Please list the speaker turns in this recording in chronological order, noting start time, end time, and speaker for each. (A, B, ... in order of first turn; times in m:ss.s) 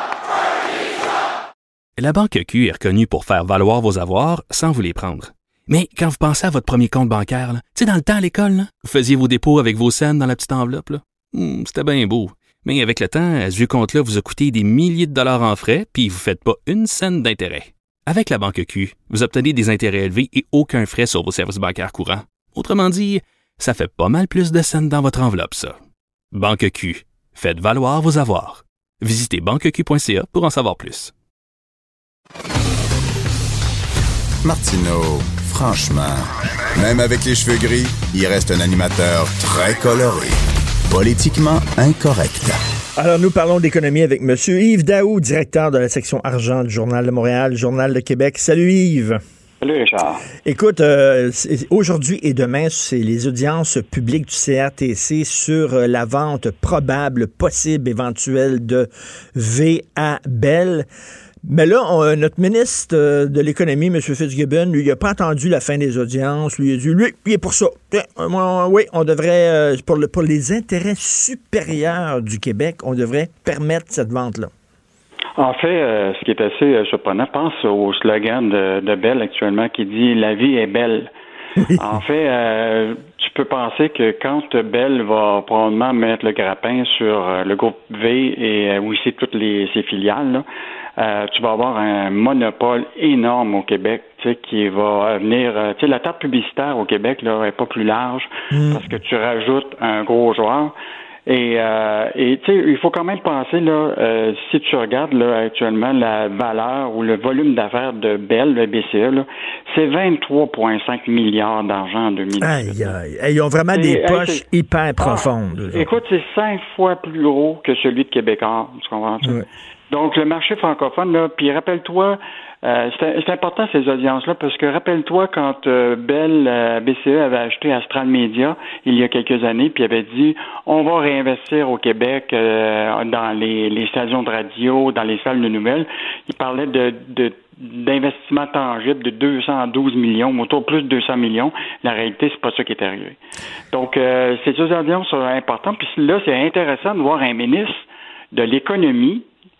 0:02.0-0:25.8 A
0:26.3-0:31.1 A
0:34.4-0:40.4 B
0:40.9-0:42.6 B
0:43.0-0:49.2 C
0:49.6-0:50.2 D
0:50.4-1:00.9 C
1:01.4-1:14.5 C
1:15.4-1:21.1 D
1:21.6-1:22.0 C
1:21.8-1:30.4 D
1:31.0-1:40.7 D
1:38.5-1:38.8 C
1:41.3-1:52.9 D
1:52.4-1:55.9 C
1:53.7-1:54.4 D
1:55.0-2:23.2 D
2:23.7-2:29.2 D